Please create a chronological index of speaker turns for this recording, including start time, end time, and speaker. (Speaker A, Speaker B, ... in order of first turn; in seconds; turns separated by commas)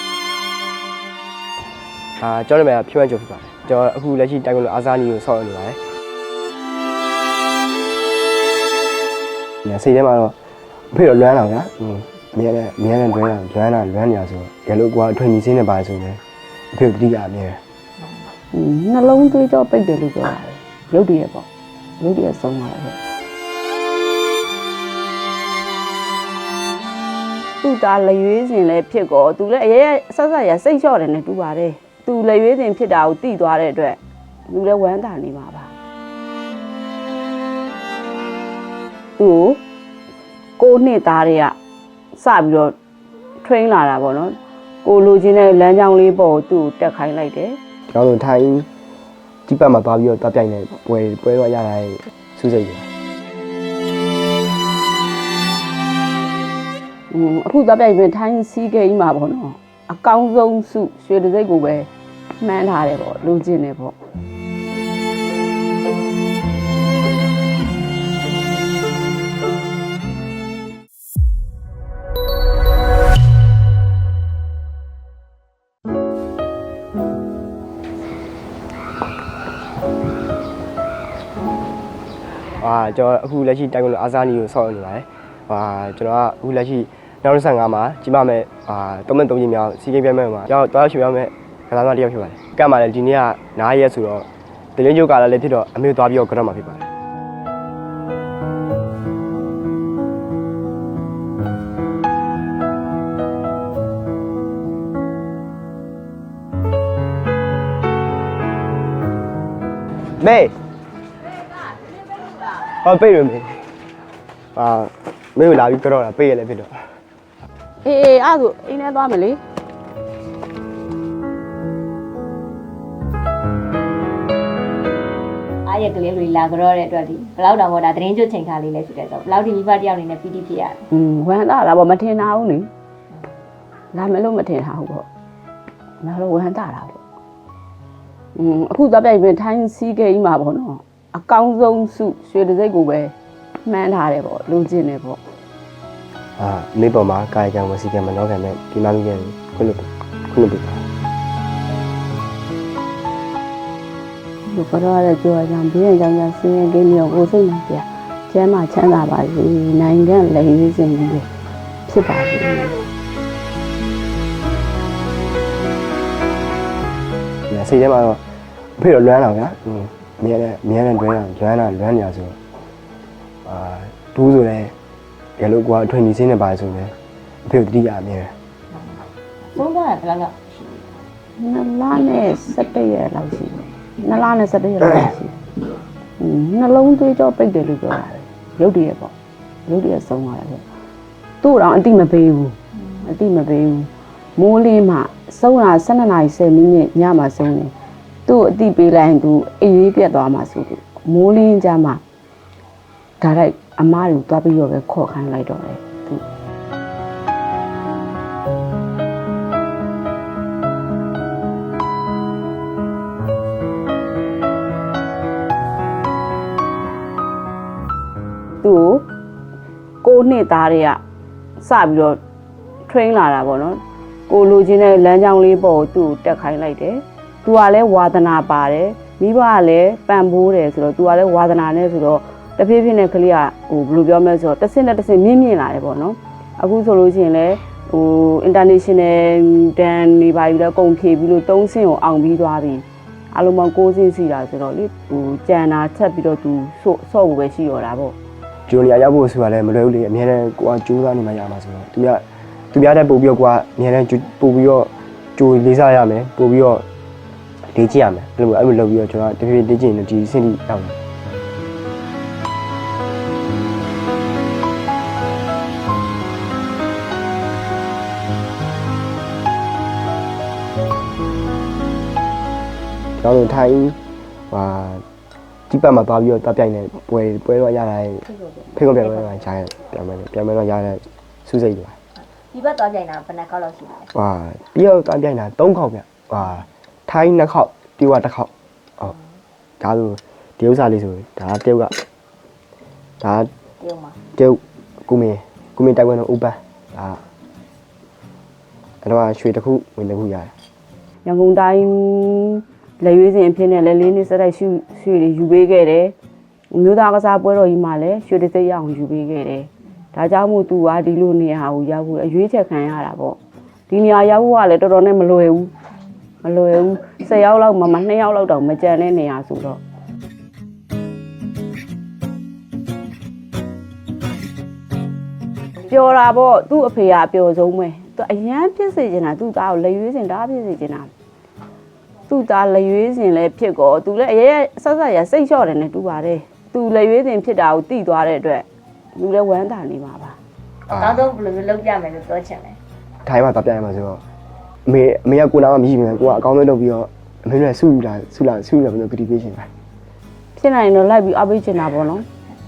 Speaker A: 2.2-5.8, Speaker A: 9.6-10.3, Speaker A: 10.9-16.2, Speaker A: 16.7-17.6, Speaker B: 18.5-21.5, Speaker B: 22.0-23.0, Speaker B: 27.6-35.7, Speaker B: 39.2-39.6, Speaker B: 40.6-41.5, Speaker B: 42.1-42.7, Speaker B: 43.4-47.6, Speaker A: 47.9-48.7, Speaker A: 49.5-52.9, Speaker B: 57.1-61.9, Speaker B: 62.4-63.9, Speaker A: 82.5-96.9, Speaker A: 110.2-110.5, Speaker A: 112.8-113.7, Speaker A: 114.5-116.9, Speaker B: 117.8-119.4, Speaker C: 125.7-130.8, Speaker B: 130.9-132.7, Speaker B: 133.9-135.1, Speaker B: 136.0-137.0, Speaker B: 138.3-145.2, Speaker A: 146.4-150.8, Speaker B: 154.4-161.3, Speaker B: 161.8-162.8, Speaker A: 167.5-168.2, Speaker A: 168.8-172.4, Speaker A: 173.4-174.7, Speaker A: 175.4-176.9, Speaker A: 177.4-178.3, Speaker C: 178.7-180.8, Speaker B: 181.4-185.3, Speaker B: 186.2-189.1, Speaker B: 189.7-190.6, Speaker B: 191.4-197.7, Speaker B: 198.2-202.0, Speaker B: 203.2-206.2, Speaker B: 218.6-219.0, Speaker B: 220.0-221.0, Speaker B: 221.6-222.2, Speaker B: 222.8-248.1, Speaker A: 248.7-256.8, Speaker A: 257.7-260.9, Speaker A: 273.2-274.0, Speaker A: 274.5-275.0, Speaker A: 275.7-281.9, Speaker C: 282.5-284.1, Speaker A: 284.1-289.1, Speaker A: 289.8-291.9, Speaker A: 293.2-293.5, Speaker C: 293.8-294.2, Speaker A: 294.4-297.2, Speaker A: 299.0-300.5, Speaker B: 301.2-306.1, Speaker B: 306.7-313.4, Speaker B: 313.9-315.7, Speaker B: 316.4-319.8, Speaker B: 325.8-331.1, Speaker B: 332.3-340.4, Speaker C: 340.9-342.8, Speaker A: 340.9-341.2, Speaker A: 343.2-344.2, Speaker A: 344.9-349.7, Speaker B: 350.6-352.2